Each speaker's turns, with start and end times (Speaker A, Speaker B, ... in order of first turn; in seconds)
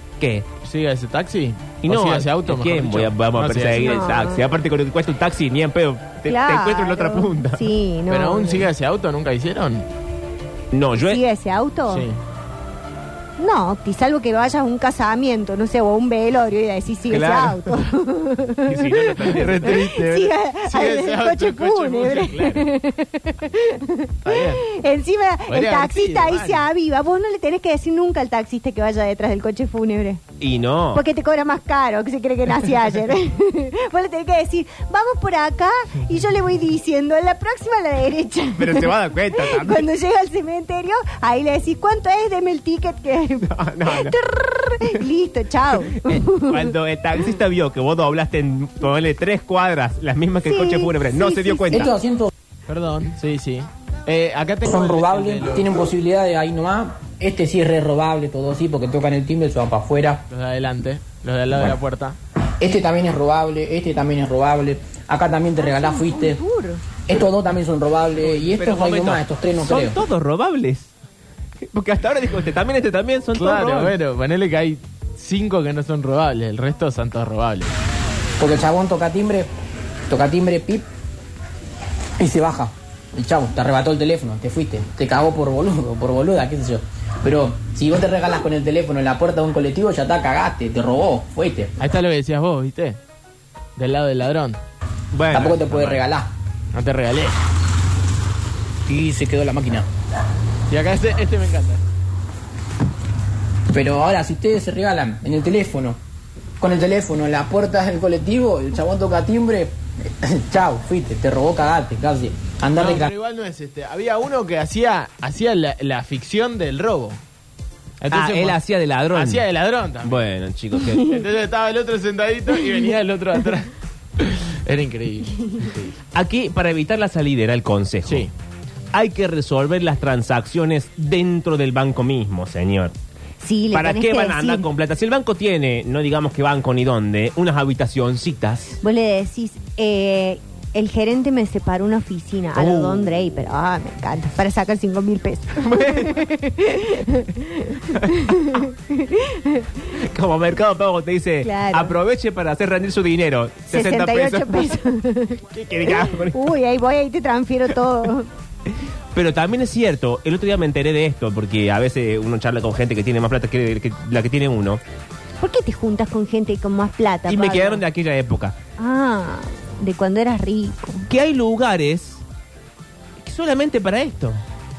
Speaker A: 0.2-0.5, 1.8-7.6, 10.7-11.2, 17.1-17.9, 18.6-19.7, 30.4-31.0, 38.6-39.9, 43.4-44.1, 45.9-51.9, 68.3-70.9, 71.6-73.9, 95.1-96.0, 118.1-119.5, 120.0-121.2, 126.1-128.3, 128.9-132.9, 133.7-138.8, 142.6-143.1, 145.6-146.3, 147.9-148.6, 150.0-154.8, 155.5-156.5, 159.1-164.8, 167.3-168.6, 171.1-172.2, 173.2-174.4
Speaker B: 0.6-4.1, 8.1-9.9, 11.9-12.2, 19.2-22.7, 24.2-24.6, 25.5-26.6, 52.7-55.7, 60.3-62.2, 73.3-77.7, 91.8-93.0, 93.8-94.6, 96.7-97.4, 100.7-101.8, 112.7-117.2, 118.0-118.6, 119.1-120.2, 121.0-125.9, 128.0-128.3
Speaker C: 3.7-4.4, 6.2-8.7, 11.0-12.1, 13.4-30.2, 30.9-46.7, 50.5-51.9, 65.6-66.8, 133.4-134.6, 138.8-149.8, 151.4-151.9, 153.7-158.3, 165.4-167.8, 168.8-171.1
Speaker D: 51.7-52.3, 54.6-60.2, 62.6-66.4, 67.1-70.0, 78.4-79.5, 80.1-80.8, 82.2-91.7, 95.3-96.3, 98.9-99.8, 103.7-106.0, 106.6-113.1